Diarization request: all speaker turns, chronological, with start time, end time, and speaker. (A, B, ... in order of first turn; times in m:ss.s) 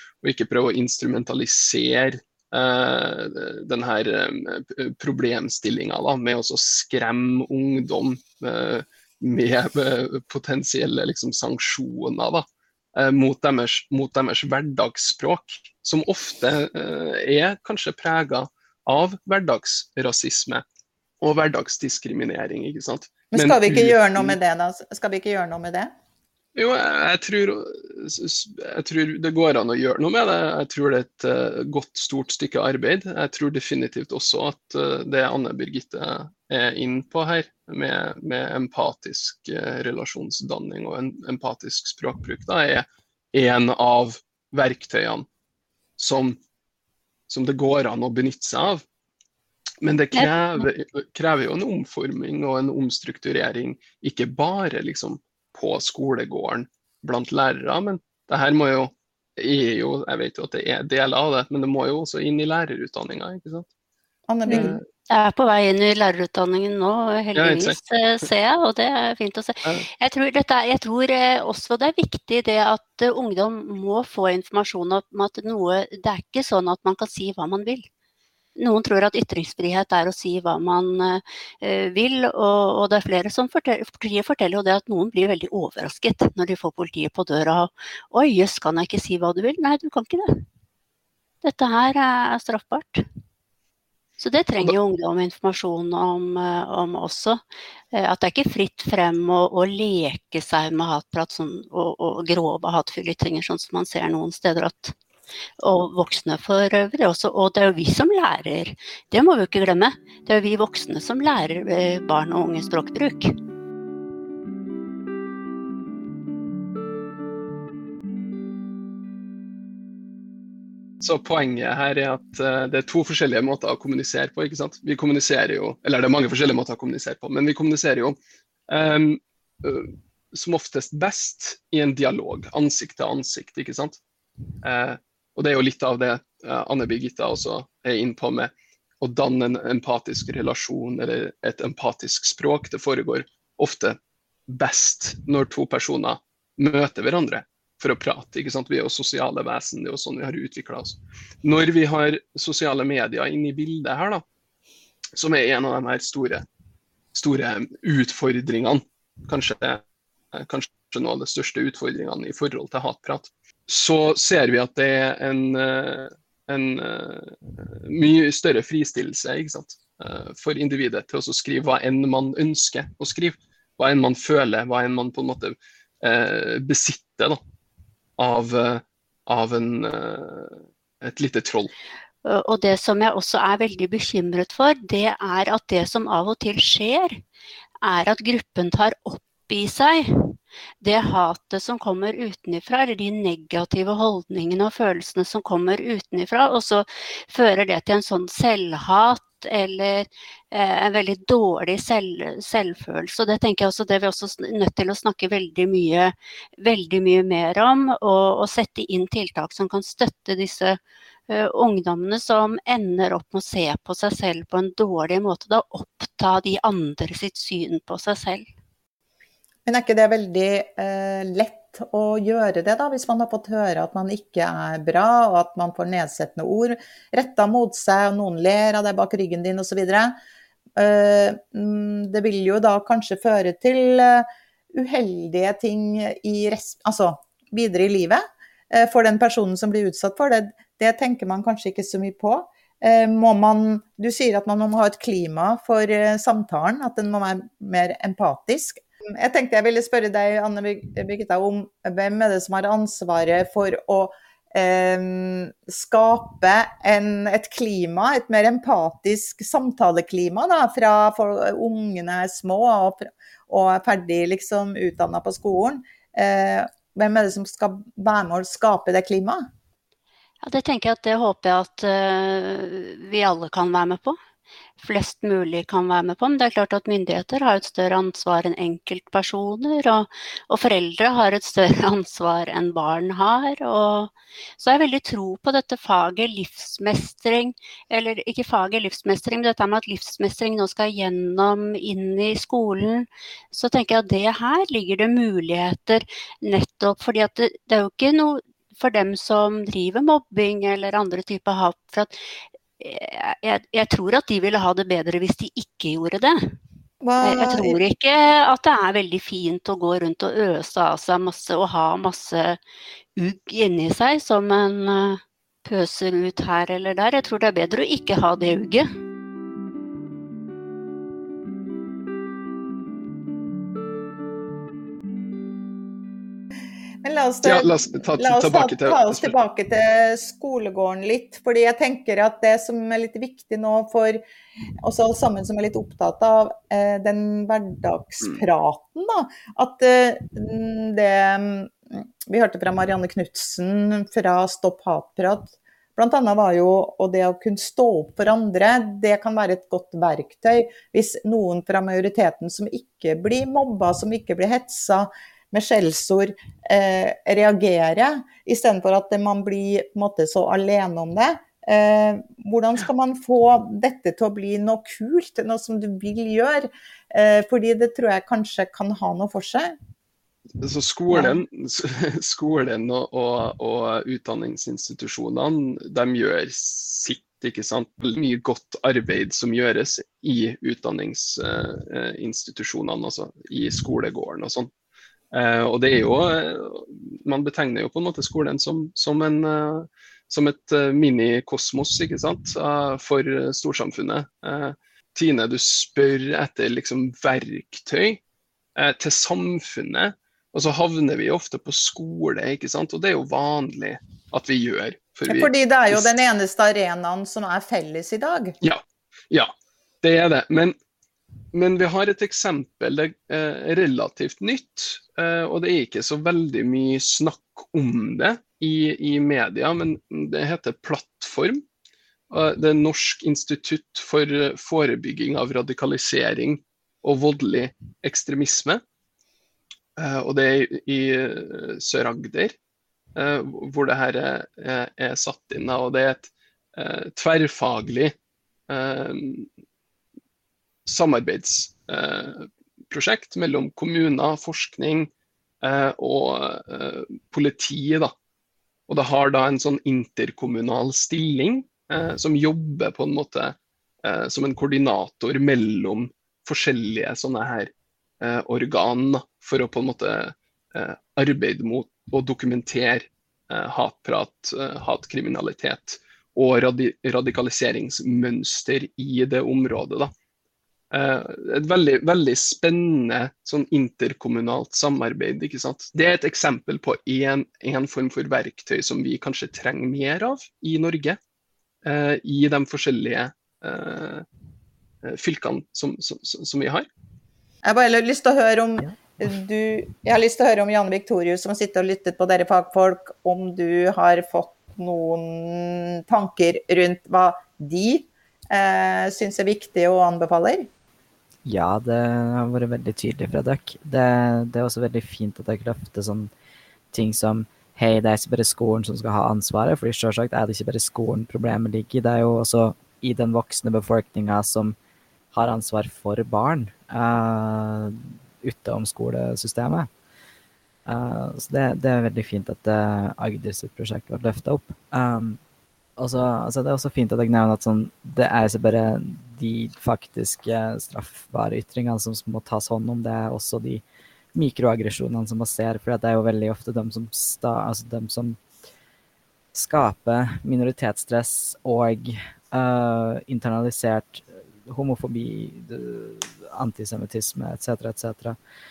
0:00.2-0:20.6 A
0:21.2-0:24.4 A
0:23.3-0:25.9 B
0:26.6-0:45.3 A
0:46.0-0:46.4 A
0:47.3-0:48.8 A
0:49.8-1:03.7 A
0:50.1-0:50.6 C
1:04.3-1:04.8 B
1:04.4-1:04.8 A
1:04.5-1:17.9 C
1:07.4-1:07.8 A
1:18.6-1:30.4 C
1:31.4-1:33.0 C
1:34.2-1:44.9 C
1:45.6-1:53.3 C
2:01.0-2:08.2 A
2:08.7-2:14.0 A
2:14.6-2:24.0 A
2:24.5-2:34.2 A
2:35.2-2:36.4 A
2:37.1-2:57.4 A
2:58.2-3:01.7 A
3:02.2-3:07.2 C
3:07.8-3:38.5 C
3:39.6-3:50.1 B
3:50.8-4:29.4 B
4:30.4-4:34.2 C
4:34.8-5:02.2 C
5:02.8-5:06.5 C
5:07.0-5:07.8 B
5:07.2-5:12.6 C
5:13.2-5:18.9 C
5:27.0-5:34.2 B
5:27.4-5:29.4 A
5:34.8-6:09.8 B
6:10.6-6:24.7 A
6:11.1-6:11.4 B
6:25.3-6:38.2 A
6:38.8-6:46.1 A
6:45.2-6:48.5 B
6:48.6-6:50.8 A
6:51.5-7:01.6 A
7:02.3-7:08.8 A
7:10.0-7:12.5 A
7:13.2-7:18.1 A
7:18.7-7:19.5 A
7:20.8-7:25.1 A
7:25.6-7:28.1 A
7:28.9-7:50.1 A
7:50.9-8:01.2 A
8:01.8-8:04.2 A
8:05.0-8:06.9 A
8:07.6-8:20.7 B
8:21.4-8:26.3 D
8:26.9-8:34.8 D
8:35.3-8:39.9 D
8:40.9-8:45.4 D
8:46.0-8:53.8 D
8:54.3-8:58.4 D
8:59.5-9:08.4 D